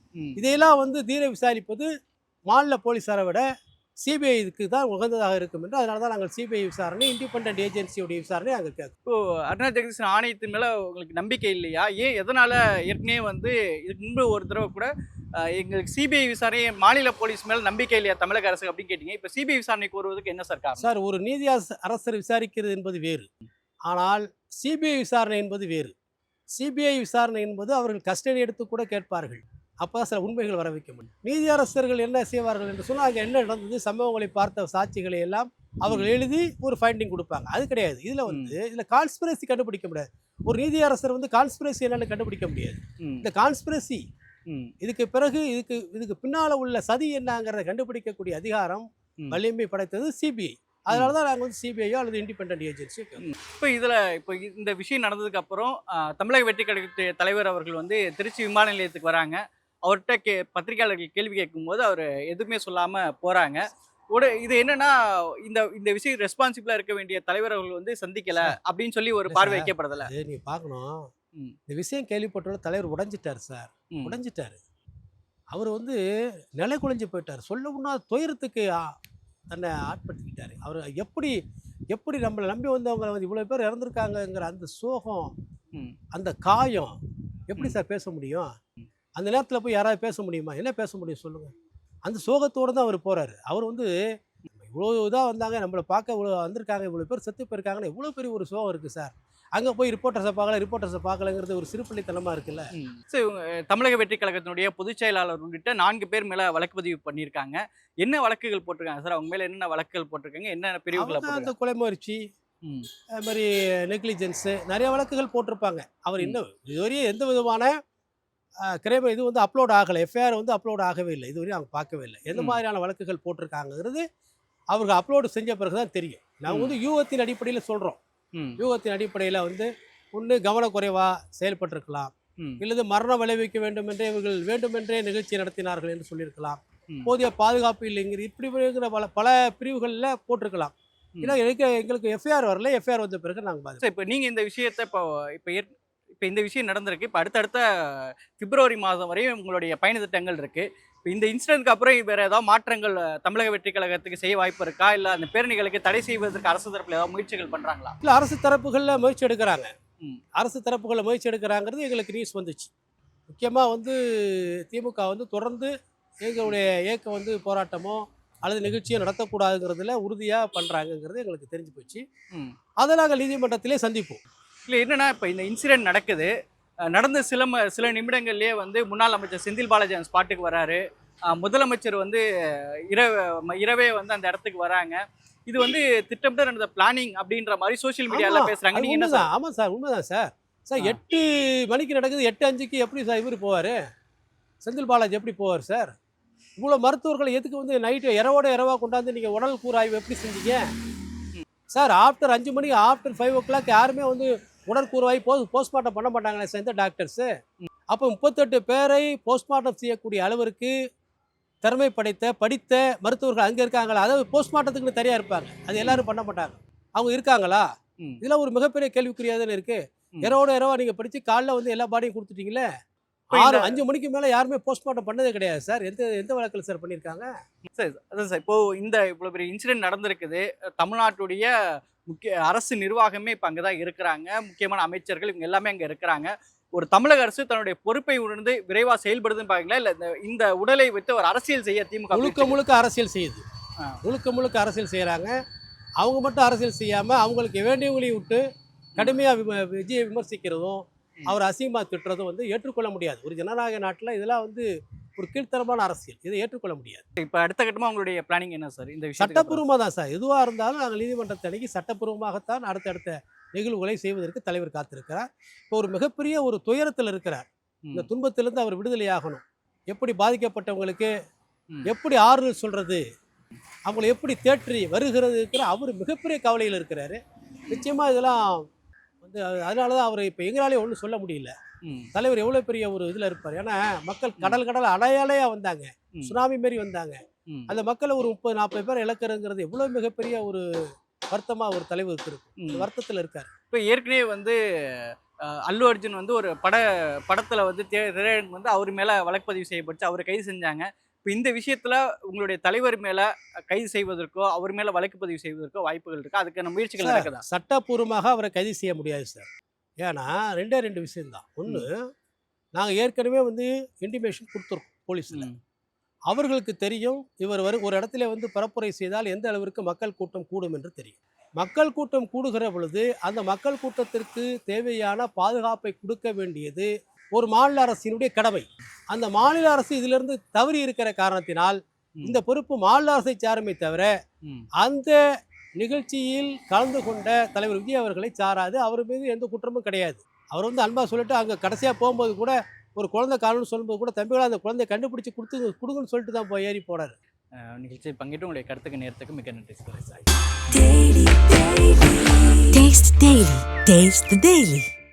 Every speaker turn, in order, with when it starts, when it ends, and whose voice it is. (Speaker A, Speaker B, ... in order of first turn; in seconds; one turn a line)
Speaker A: 0.4-1.9
Speaker A: 2.5-3.4
Speaker A: 4.0-8.9
Speaker B: 9.1-14.9
Speaker B: 15.5-20.9
Speaker A: 20.8-23.3
Speaker A: 23.9-25.9
Speaker A: 26.5-44.0
Speaker B: 35.9-36.1
Speaker B: 38.3-38.6
Speaker A: 44.8-53.3
Speaker B: 53.2-64.9
Speaker B: 65.5-70.1
Speaker A: 69.3-71.0
Speaker A: 71.7-74.6
Speaker A: 75.5-76.0
Speaker A: 76.6-78.7
Speaker A: 79.5-81.3
Speaker A: 81.9-85.3
Speaker A: 86.1-87.0
Speaker A: 87.5-88.5
Speaker A: 89.2-91.5
Speaker A: 92.0-93.9
Speaker A: 94.5-102.7
Speaker B: 102.8-111.5
Speaker A: 110.9-112.2
Speaker A: 113.2-117.7
Speaker A: 118.7-124.0
Speaker B: 122.3-122.6
Speaker A: 124.7-128.0
Speaker B: 126.5-126.8
Speaker A: 128.6-143.8
Speaker B: 143.8-145.7
Speaker B: 146.2-147.6
Speaker B: 148.3-158.0
Speaker A: 158.0-159.7
Speaker A: 160.4-162.7
Speaker A: 163.3-165.7
Speaker A: 166.2-172.0
Speaker A: 172.8-174.2
Speaker B: 174.7-176.3
Speaker B: 176.9-180.8
Speaker B: 181.4-182.2
Speaker B: 182.9-189.3
Speaker A: 188.1-193.7
Speaker A: 194.6-195.9
Speaker A: 196.6-200.6
Speaker A: 201.7-207.3
Speaker A: 207.9-210.7
Speaker A: 211.6-217.6
Speaker A: 218.2-222.7
Speaker B: 223.3-223.8
Speaker A: 223.3-227.3
Speaker B: 227.7-231.5
Speaker B: 232.1-242.6
Speaker A: 242.1-243.4
Speaker A: 244.0-245.3
Speaker A: 246.0-248.4
Speaker A: 249.0-254.7
Speaker A: 255.2-257.1
Speaker B: 257.2-259.6
Speaker A: 259.2-271.1
Speaker A: 271.9-273.0
Speaker A: 273.9-278.6
Speaker A: 279.2-281.5
Speaker A: 282.1-290.6
Speaker A: 291.3-293.5
Speaker B: 292.6-292.9
Speaker B: 293.7-294.6
Speaker B: 295.7-307.4
Speaker A: 307.0-309.5
Speaker A: 310.0-311.9
Speaker A: 312.8-315.5
Speaker A: 316.3-334.1
Speaker A: 334.8-335.2
Speaker A: 335.8-347.1
Speaker B: 347.6-352.5
Speaker C: 352.7-354.9